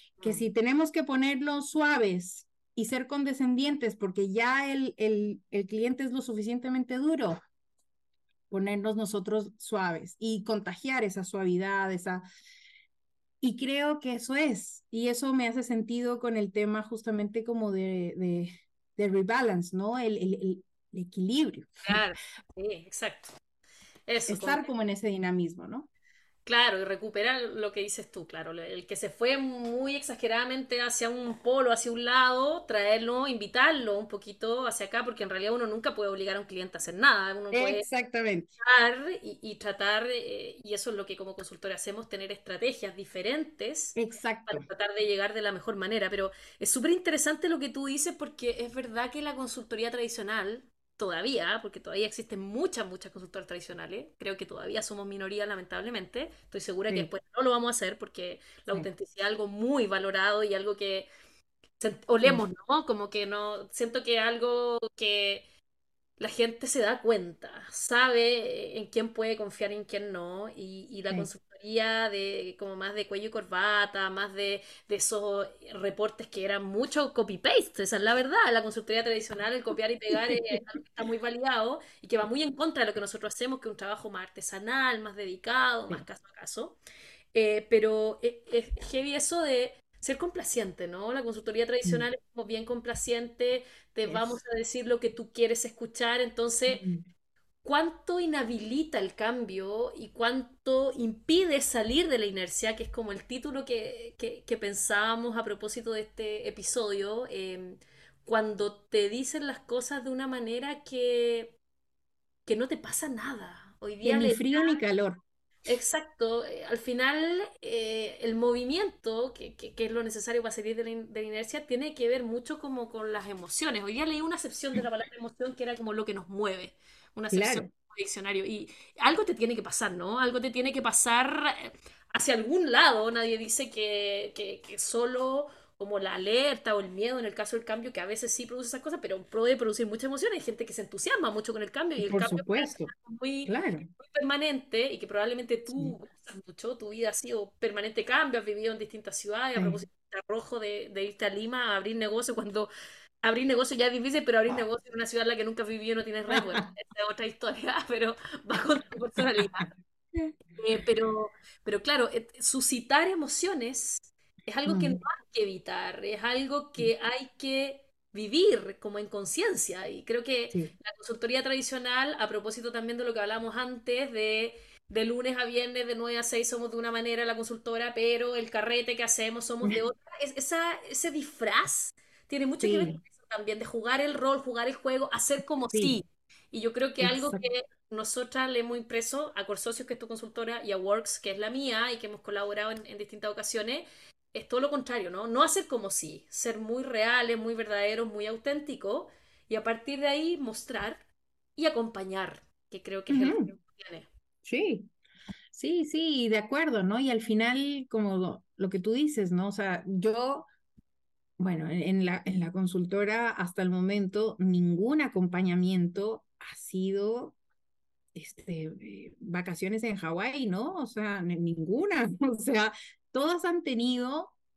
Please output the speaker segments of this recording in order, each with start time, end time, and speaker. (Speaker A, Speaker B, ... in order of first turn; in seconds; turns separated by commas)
Speaker A: 0.2-0.4, Speaker B: 0.2-7.4, Speaker B: 8.5-12.2, Speaker B: 13.4-22.0, Speaker A: 21.9-23.3, Speaker A: 24.1-24.6, Speaker B: 24.3-25.9, Speaker A: 26.4-37.9, Speaker B: 37.5-38.5, Speaker A: 38.6-44.0, Speaker B: 44.0-44.7, Speaker A: 44.5-61.1, Speaker A: 61.8-65.4, Speaker A: 66.2-86.8, Speaker B: 80.2-80.5, Speaker A: 87.3-96.8, Speaker B: 94.0-94.4, Speaker B: 96.7-97.0, Speaker A: 97.6-111.5, Speaker A: 112.5-114.8, Speaker B: 114.0-115.2, Speaker A: 115.7-152.7, Speaker B: 127.3-127.7, Speaker B: 142.0-142.9, Speaker B: 143.4-143.8, Speaker B: 149.6-149.8, Speaker A: 153.2-159.7, Speaker B: 156.3-156.7, Speaker B: 159.2-159.6, Speaker A: 160.5-201.0, Speaker B: 164.7-165.0, Speaker B: 182.6-183.0, Speaker B: 185.7-185.9, Speaker B: 187.0-187.4, Speaker A: 201.6-204.1, Speaker B: 203.1-203.5, Speaker B: 204.4-204.9, Speaker B: 205.5-210.4, Speaker B: 211.4-217.3, Speaker B: 218.1-224.3